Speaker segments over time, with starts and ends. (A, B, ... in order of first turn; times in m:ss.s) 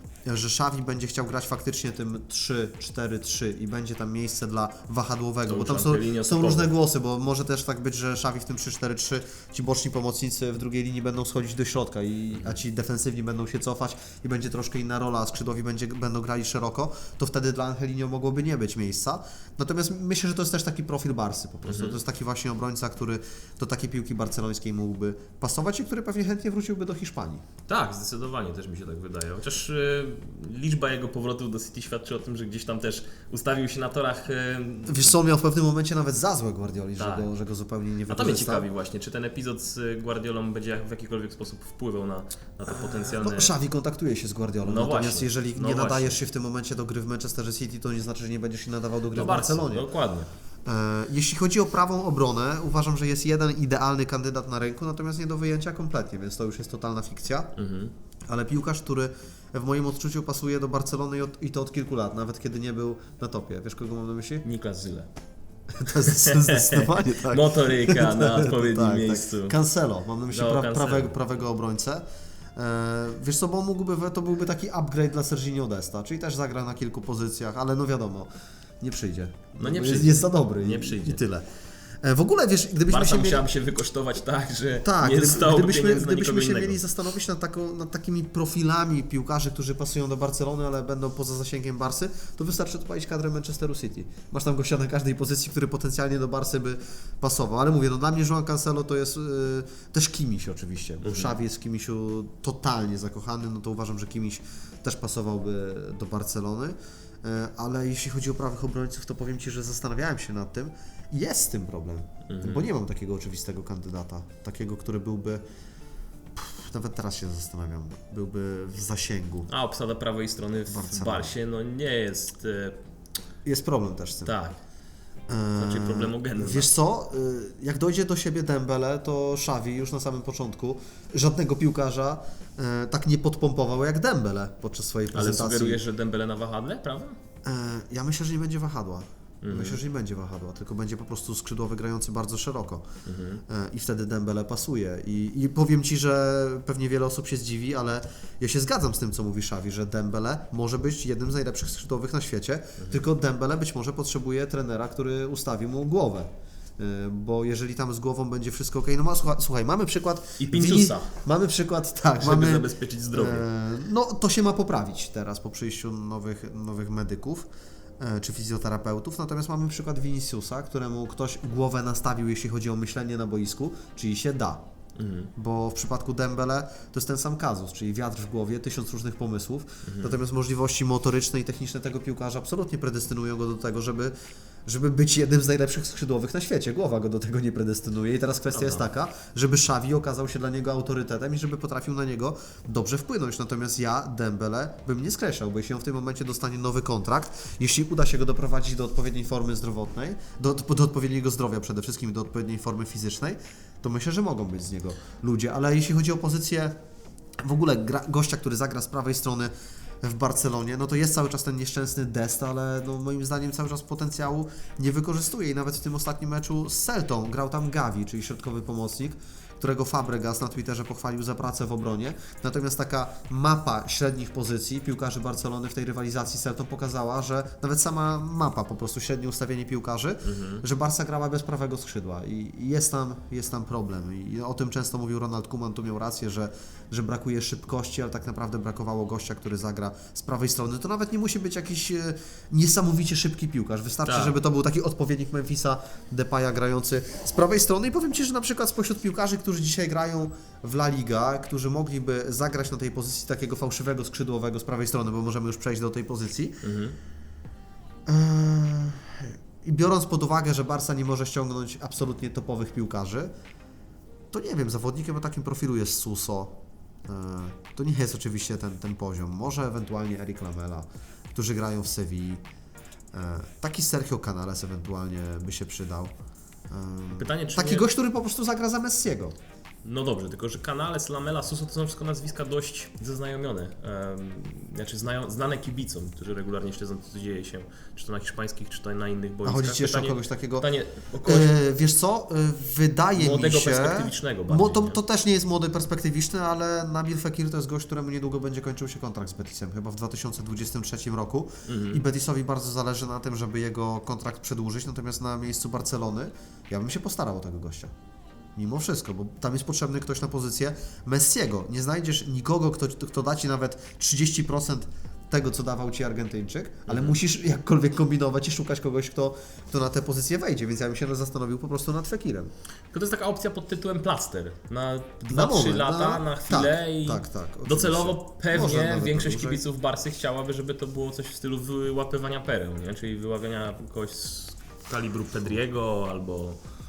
0:00.2-0:27.4 A
0:05.4-0:06.7 B
0:21.6-0:22.0 B
0:27.7-0:35.2 B
0:34.9-0:38.6 A
0:37.0-0:37.3 B
0:38.1-0:43.5 B
0:42.7-0:49.9 A
0:44.6-0:46.2 B
0:49.1-0:50.3 B
0:50.6-0:57.5 A
0:57.6-0:57.9 B
0:58.3-1:04.4 A
1:04.4-1:05.1 B
1:05.7-1:12.0 A
1:05.9-1:09.5 B
1:10.3-1:11.1 B
1:12.5-1:18.3 A
1:18.8-1:21.4 A
1:19.6-1:21.2 B
1:22.0-1:23.4 A
1:22.9-1:26.8 B
1:24.8-1:55.4 A
1:41.0-1:41.4 B
1:52.3-1:52.7 B
1:56.3-1:59.5 A
1:59.5-2:02.8 B
2:00.7-2:01.3 A
2:03.4-2:04.3 A
2:04.2-2:04.6 B
2:05.3-2:15.8 A
2:05.6-2:06.7 B
2:15.1-2:17.2 B
2:17.4-2:22.8 A
2:19.4-2:19.8 B
2:23.0-2:23.4 B
2:23.5-2:47.5 A
2:32.8-2:33.0 B
2:40.4-2:41.1 B
2:42.2-2:43.4 B
2:48.0-2:54.6 A
2:55.0-2:55.3 B
2:55.3-3:04.1 A
2:59.8-3:00.2 B
3:04.6-3:26.8 A
3:08.5-3:08.8 B
3:27.4-3:29.5 A
3:30.0-4:16.6 A
3:50.2-3:50.6 B
4:04.0-4:04.3 B
4:16.6-4:16.9 B
4:18.0-4:23.3 A
4:24.3-4:32.4 A
4:33.1-4:36.1 A
4:36.7-4:39.4 A
4:37.1-4:37.9 B
4:39.8-4:51.5 B
4:49.4-4:50.7 A
4:51.2-5:07.9 A
4:53.1-4:55.0 B
5:01.7-5:02.0 B
5:08.6-5:22.5 A
5:16.9-5:17.2 B
5:22.9-5:36.6 B
5:25.3-5:29.6 A